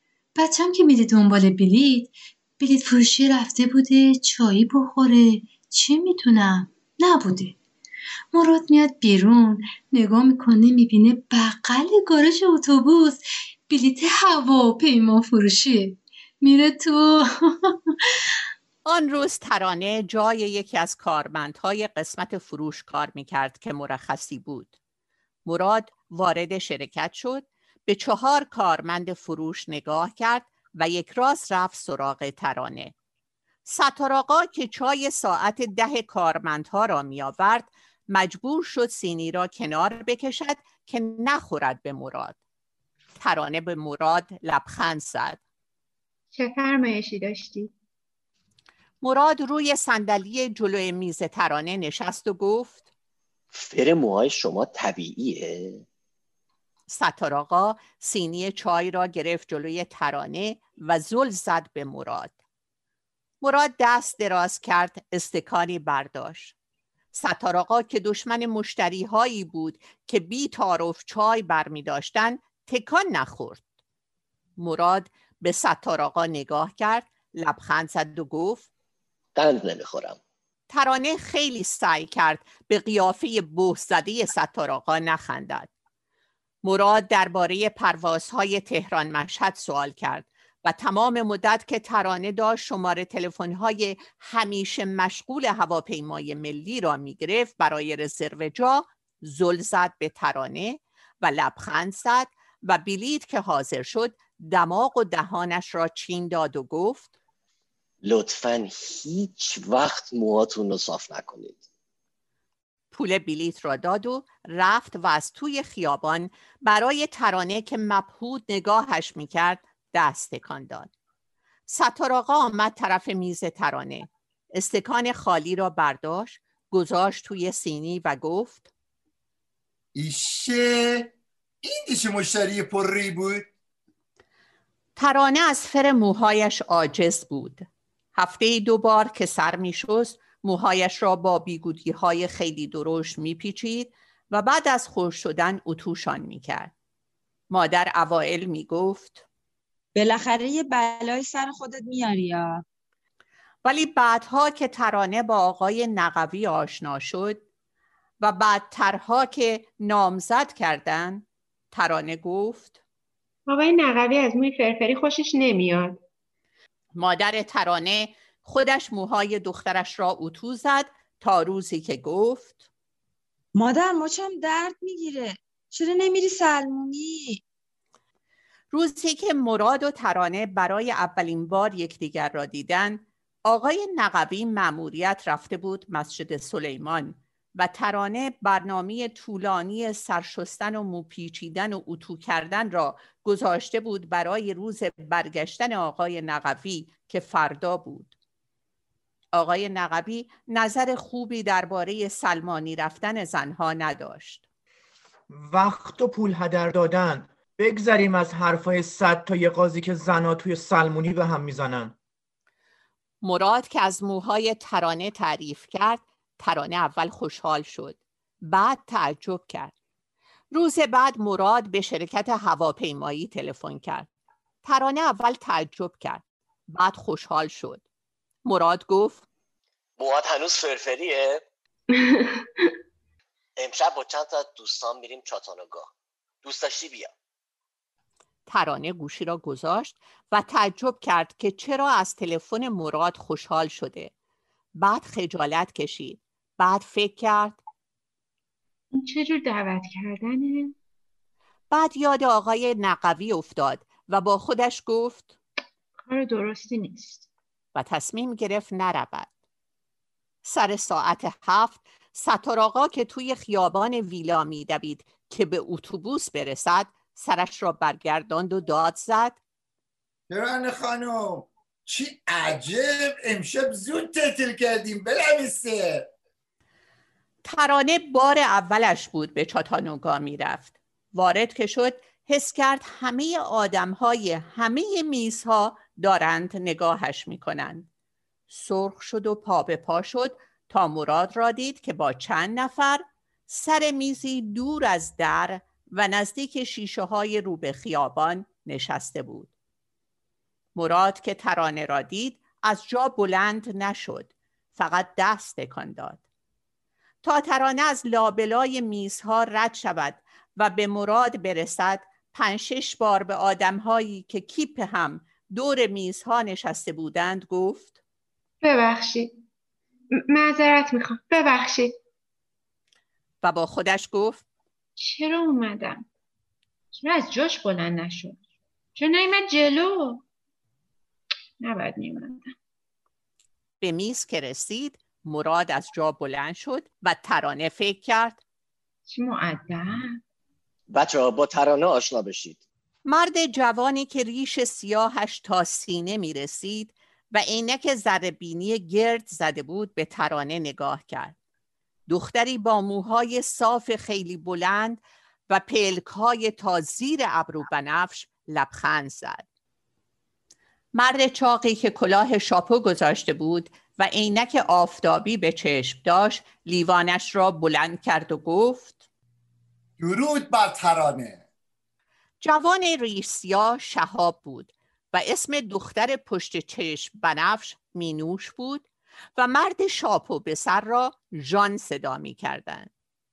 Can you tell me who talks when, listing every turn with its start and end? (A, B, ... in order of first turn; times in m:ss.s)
0:00.4-0:07.6 A
0:08.3-0:17.8 A
0:18.8-0:24.7 B
0:25.4-0:32.9 B
0:33.6-0:42.4 B
0:43.2-0:45.4 B
0:46.3-0:47.7 C
0:49.0-0:52.8 B
0:53.5-0:55.8 D
0:56.9-1:02.3 B
1:03.4-1:06.5 B
1:07.1-1:13.6 B
1:14.6-1:18.7 B
1:19.4-1:20.2 D
1:20.7-1:25.7 B
1:26.6-1:47.1 B
1:48.0-1:51.6 D
1:52.9-2:00.9 B
2:01.7-2:08.7 B
2:09.9-2:13.5 E
2:15.0-2:26.7 B
2:27.5-2:29.2 B
2:30.0-2:32.6 F
2:33.6-2:37.4 B
2:38.2-2:42.8 B
2:43.5-2:46.0 C
2:47.0-2:52.6 B
2:53.5-2:57.4 F
2:58.7-3:18.1 B
3:19.3-3:24.4 B
3:25.3-3:31.9 G
3:33.2-3:39.7 B
3:40.5-3:44.1 B
3:44.6-3:47.8 B
3:48.4-3:49.2 B
3:50.0-3:51.4 D
3:51.9-3:52.4 C
3:53.6-3:55.9 D
3:56.4-3:57.1 D
3:58.5-4:04.1 B
4:04.8-4:07.6 B
4:08.9-4:10.7 C
4:11.7-4:15.3 B
4:16.0-4:17.3 C
4:17.7-4:19.3 B
4:20.4-4:29.4 B
4:30.3-4:36.1 E
4:37.4-4:47.9 B
4:48.5-4:59.5 B
5:00.8-5:06.2 B
5:07.2-5:18.0 B
5:18.6-5:19.4 C
5:20.1-5:21.9 C
5:23.4-5:24.4 B
5:25.0-5:26.0 C
5:26.9-5:28.4 C
5:29.0-5:30.2 C
5:31.6-5:32.5 C
5:33.8-5:38.4 B
5:39.1-5:40.2 C
5:40.9-5:42.6 D
5:43.0-5:51.3 B
5:52.1-5:59.4 B
6:00.9-6:09.0 B
6:10.0-6:11.4 E
6:12.4-6:18.8 B
6:19.4-6:22.9 B